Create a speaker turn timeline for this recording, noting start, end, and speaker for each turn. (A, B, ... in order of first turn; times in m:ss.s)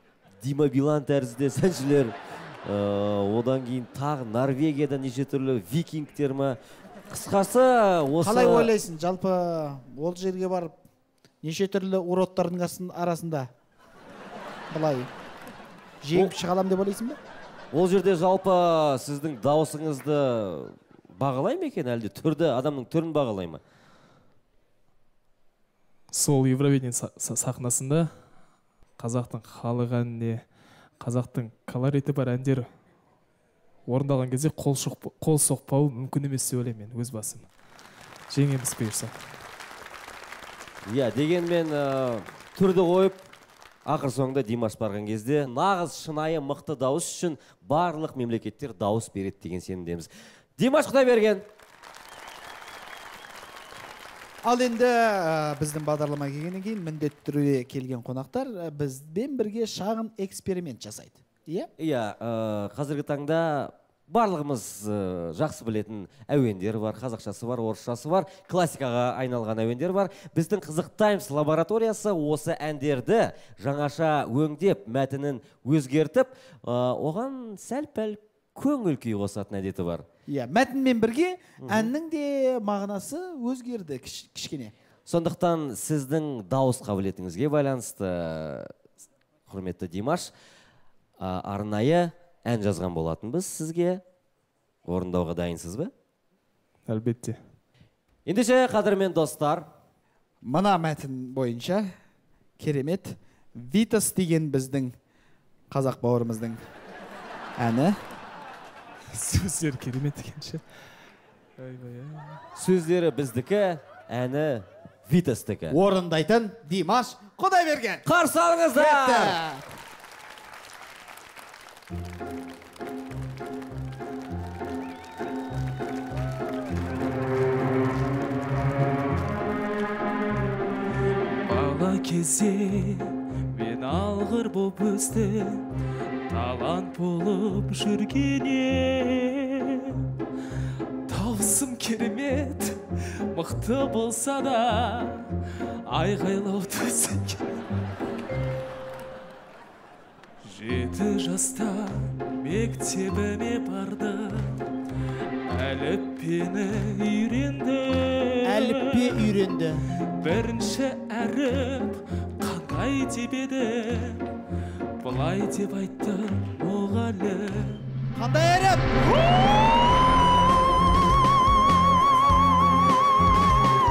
0:00.4-0:06.6 A
0:07.1-0:08.7 A
0:08.2-0:10.7 B
0:11.4-0:13.5 B
0:14.7-0:15.1 B
0:16.0-0:17.2 B
0:17.7-0:23.6 A
0:26.1-0:28.1 C
0:29.0-0:30.5 C
0:31.0-0:32.7 C
0:33.9-0:37.5 C
0:38.3-0:39.1 C
0:40.9-0:43.2 A
0:43.8-0:51.4 A
0:54.4-1:01.7 B
1:01.8-1:20.0 A
1:20.3-1:24.7 B
1:21.6-1:21.9 A
1:25.1-1:28.7 A
1:29.5-1:30.3 A
1:31.2-1:34.0 A
1:34.9-1:35.9 A
1:36.9-1:37.4 C
1:38.3-1:39.7 A
1:40.4-1:41.8 B
1:42.6-1:44.9 B
1:45.7-1:46.6 B
1:47.6-1:48.0 B
1:49.1-1:50.6 C
1:51.6-1:52.4 C
1:52.6-1:55.8 A
1:55.7-1:58.0 B
1:58.0-1:59.4 A
1:58.8-1:59.7 B
2:11.4-2:15.7 C
2:16.3-2:20.1 C
2:21.1-2:27.6 C
2:30.4-2:34.7 C
2:35.5-2:39.3 C
2:38.4-2:39.9 B
2:40.1-2:44.3 C
2:45.0-2:47.9 C
2:48.2-2:48.9 B